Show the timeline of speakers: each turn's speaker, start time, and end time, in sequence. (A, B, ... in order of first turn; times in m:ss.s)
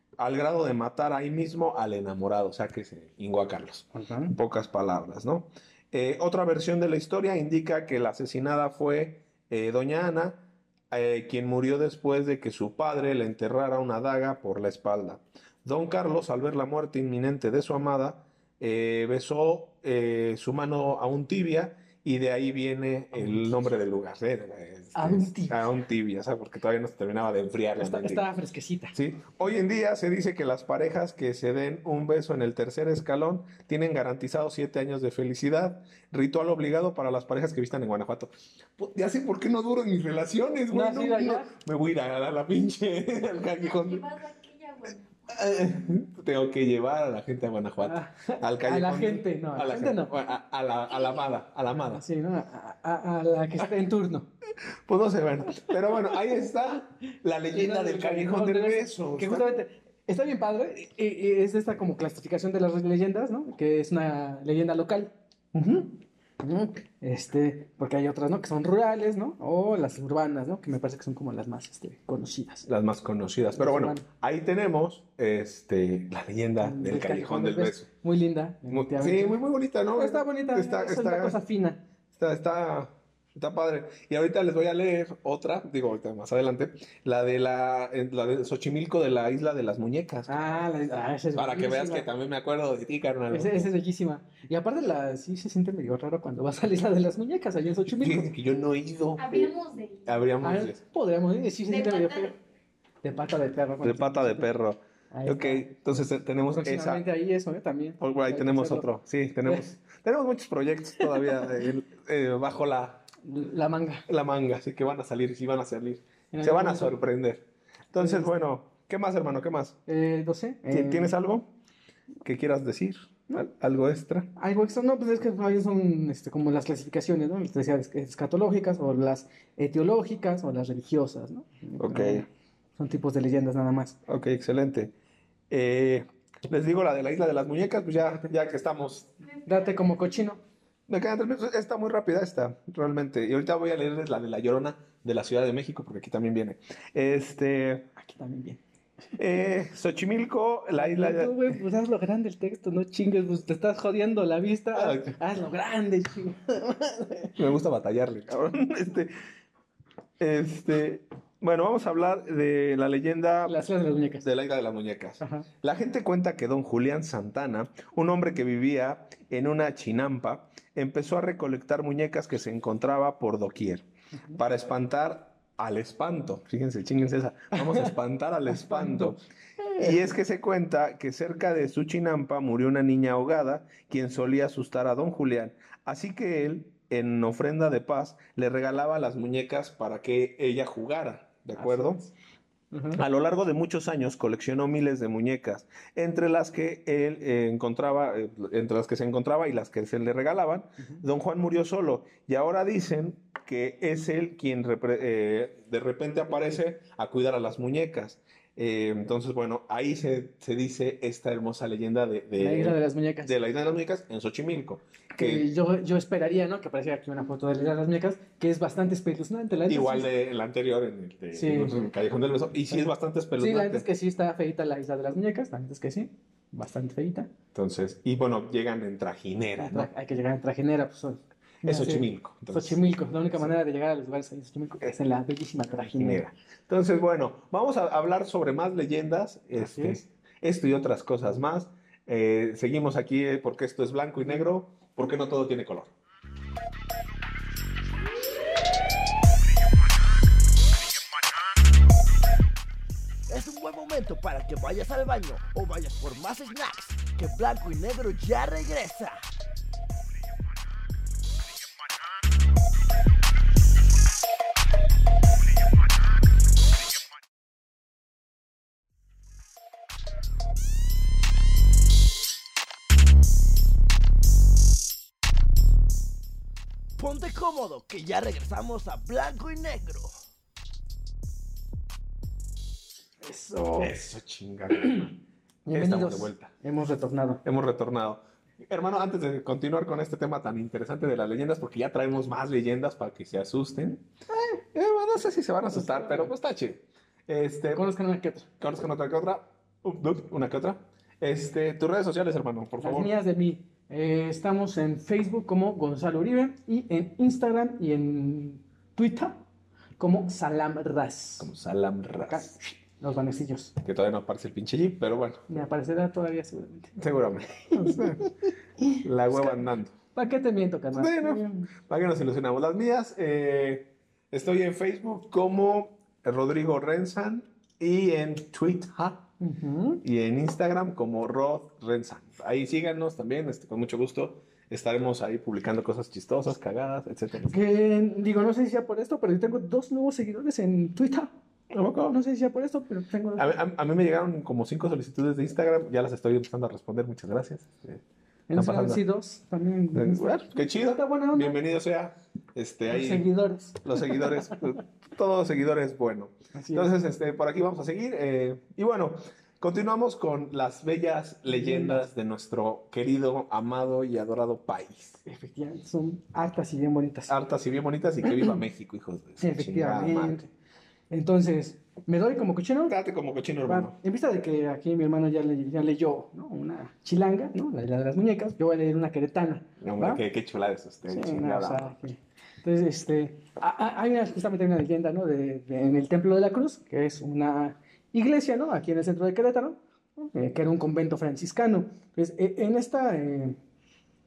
0:00.2-0:28.2 A
0:03.9-0:04.4 B
0:25.0-0:25.6 B
0:27.8-0:29.0 B
0:28.9-0:44.1 A
0:40.7-0:41.5 B
0:43.5-0:45.1 C
0:45.3-0:52.0 A
0:47.8-0:50.1 B
0:51.9-0:54.3 B
0:54.9-0:59.5 A
0:57.5-1:12.7 B
1:12.7-1:17.9 A
1:13.6-1:14.0 B
1:16.6-1:19.4 B
1:18.7-1:21.4 A
1:20.0-1:21.8 B
1:22.2-1:30.6 A
1:30.3-1:32.1 B
1:31.3-1:33.7 A
1:33.3-1:38.3 B
1:37.9-1:39.5 A
1:39.2-1:40.2 C
1:40.0-1:40.8 A
1:40.4-1:42.4 B
1:41.7-1:42.3 C
1:43.0-1:44.5 B
1:43.8-1:47.0 A
1:45.1-1:45.7 B
1:46.5-1:48.9 B
1:48.0-1:53.0 A
1:53.2-1:54.1 B
1:54.1-1:59.8 A
1:56.3-1:57.0 B
1:58.0-1:58.4 B
1:59.9-2:01.2 B
2:00.7-2:01.5 A
2:02.2-2:04.3 A
2:04.4-2:14.0 B
2:11.8-2:12.3 A
2:14.1-2:14.9 A
2:15.5-2:19.1 A
2:19.5-2:20.4 B
2:20.9-2:27.9 A
2:28.0-2:28.6 B
2:29.2-2:31.5 A
2:30.8-2:37.4 B
2:34.8-2:35.2 A
2:37.4-2:39.1 A
2:40.2-2:43.6 A
2:43.4-2:44.3 B
2:44.2-2:59.2 A
2:45.2-2:45.5 B
2:57.5-2:57.9 B
2:58.5-3:00.0 B
2:59.8-3:12.0 A
3:11.6-3:12.1 B
3:12.7-3:13.0 B
3:13.0-3:35.5 A
3:32.4-3:33.4 B
3:35.2-3:40.1 B
3:39.7-3:43.9 A
3:41.3-3:41.8 B
3:42.7-3:47.3 B
3:47.5-3:49.9 A
3:49.6-3:56.2 B
3:51.6-3:52.8 A
3:55.8-4:05.9 A
3:59.6-4:00.0 B
4:13.3-4:19.2 D
4:37.0-4:40.2 D
4:43.2-4:43.9 B
4:43.8-4:45.2 A
4:44.8-4:45.1 B
4:45.7-4:47.4 B
4:45.7-4:46.5 A
4:47.4-4:54.0 A
4:54.6-4:57.9 A
4:55.7-4:56.3 B
4:57.7-4:58.5 B
4:58.6-5:03.1 A
5:02.8-5:09.4 B
5:10.0-5:11.5 B
5:11.4-5:12.5 A
5:12.2-5:13.8 B
5:13.8-5:15.5 A
5:15.5-5:17.0 B
5:17.0-5:18.3 A
5:17.7-5:19.6 B
5:19.0-5:19.9 A
5:20.1-5:21.7 B
5:20.9-5:29.3 A
5:29.4-5:30.0 B
5:30.0-5:37.6 A
5:37.5-5:41.3 B
5:41.7-5:42.2 A
5:42.1-5:43.5 B
5:43.4-5:48.0 A
5:48.5-5:51.6 B
5:48.5-5:49.0 A
5:49.9-5:53.3 A
5:52.9-5:54.6 B
5:53.8-6:05.2 A
5:56.5-5:56.9 B
6:01.5-6:02.1 B
6:05.2-6:07.4 B
6:07.3-6:10.4 A
6:09.4-6:10.5 B
6:11.1-6:13.0 B
6:12.9-6:14.0 A
6:13.7-6:20.2 B
6:19.8-6:22.0 A
6:21.1-6:33.6 B